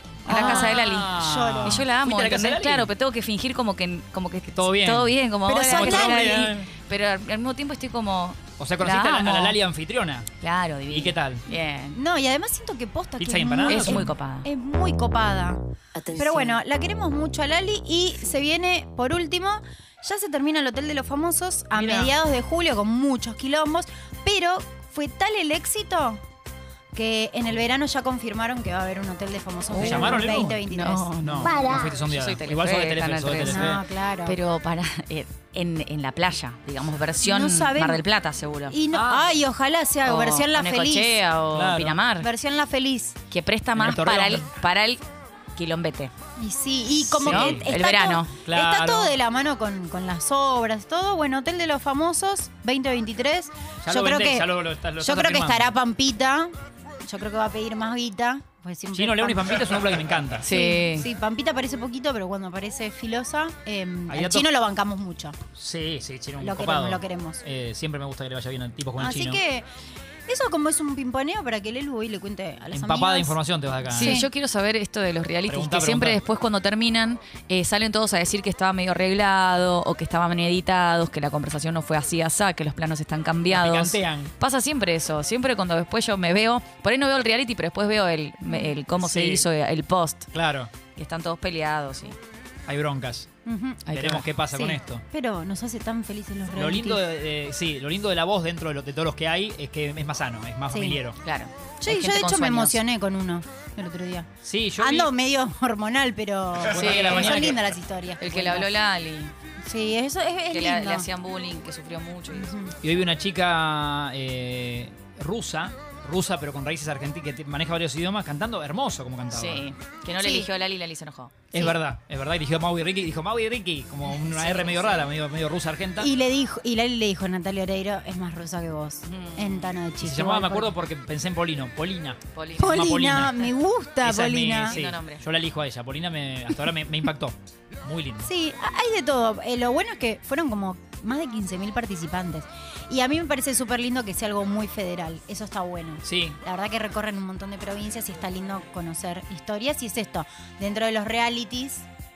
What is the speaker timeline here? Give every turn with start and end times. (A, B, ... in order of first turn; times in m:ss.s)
0:00.2-0:02.9 A
0:00.2-0:01.9 B
0:00.2-0:09.6 C
0:04.6-0:05.2 A
0:05.4-0:06.6 B
0:05.7-0:06.7 A
0:08.6-0:10.3 A
0:10.4-0:12.0 C
0:10.9-0:11.4 A
0:11.9-0:26.2 B
0:13.2-0:14.1 A
0:13.6-0:14.5 C
0:16.0-0:16.6 C
0:21.7-0:22.1 A
0:26.9-0:31.1 B
0:29.7-0:38.8 C
0:29.8-0:30.6 A
0:31.2-0:33.8 A
0:33.4-0:34.4 B
0:37.2-0:38.0 B
0:38.7-0:41.2 B
0:38.9-0:39.3 A
0:40.0-0:42.3 C
0:41.5-0:42.0 A
0:42.2-0:43.2 B
0:43.3-0:45.0 C
0:43.7-0:44.5 A
0:45.6-0:46.1 C
0:46.4-0:54.5 B
0:47.1-0:48.4 C
0:47.2-0:47.7 A
0:48.4-0:49.1 A
0:53.8-0:55.7 A
0:55.0-0:56.5 B
0:57.0-1:05.4 B
0:58.9-1:00.5 A
1:00.4-1:01.1 C
1:04.1-1:04.4 A
1:05.6-1:09.4 A
1:06.4-1:07.4 B
1:09.0-1:09.6 B
1:10.3-1:13.4 B
1:12.7-1:14.2 A
1:13.9-1:14.3 B
1:13.9-1:30.3 C
1:15.4-1:16.2 A
1:23.5-1:24.3 A
1:28.5-1:28.8 B
1:29.0-1:29.5 A
1:30.3-1:30.7 A
1:30.9-1:32.2 C
1:32.7-1:33.3 A
1:33.4-1:33.9 B
1:33.8-1:34.2 C
1:33.9-1:35.0 A
1:34.5-1:37.0 B
1:36.5-1:41.2 A
1:40.7-1:41.0 B
1:41.2-1:42.8 C
1:41.8-1:44.3 B
1:44.4-1:45.1 A
1:44.8-1:48.7 B
1:46.6-1:47.6 A
1:46.7-1:47.3 C
1:48.2-1:49.3 C
1:49.6-1:51.1 B
1:50.5-1:52.7 C
1:52.3-1:52.7 B
1:52.8-1:59.6 A
1:59.3-2:01.7 C
2:00.2-2:00.5 B
2:01.5-2:06.1 A
2:04.1-2:05.1 C
2:06.0-2:10.7 B
2:09.0-2:09.8 C
2:10.0-2:13.5 A
2:12.3-2:12.9 C
2:12.6-2:14.8 B
2:14.0-2:18.3 A
2:14.6-2:15.2 C
2:18.2-2:31.9 B
2:26.0-2:26.4 A